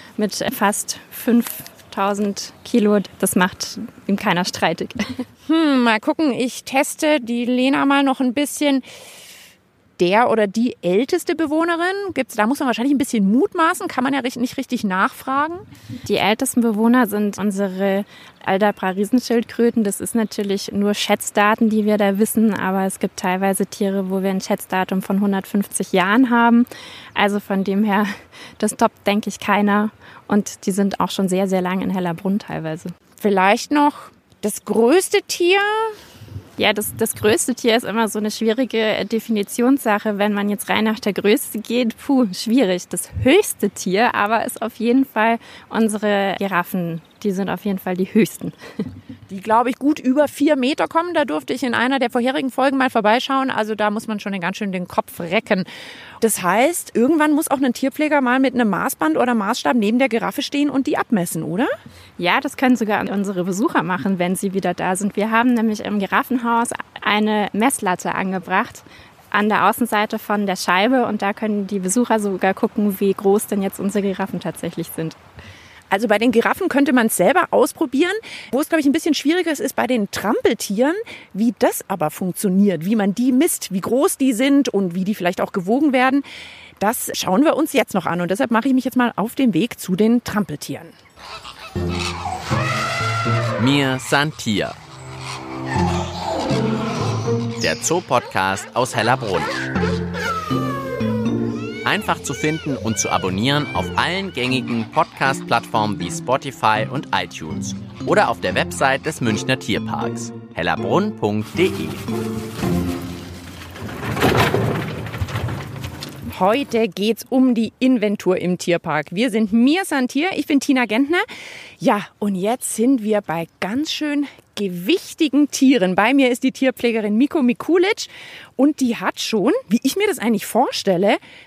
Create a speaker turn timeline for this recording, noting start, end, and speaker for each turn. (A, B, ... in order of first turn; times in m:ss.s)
0:00.2-0:05.2 A
0:05.4-0:08.8 B
0:10.0-0:15.6 B
0:16.0-0:32.9 A
0:33.2-0:35.9 B
0:36.6-0:48.5 A
0:49.3-0:55.7 B
0:56.2-1:01.7 B
1:02.2-1:15.2 A
1:15.9-1:26.2 B
1:26.8-1:30.9 B
1:33.6-1:34.8 C
1:37.6-1:39.6 C
1:41.8-1:52.0 C
1:56.3-2:01.2 B
2:01.8-2:11.2 B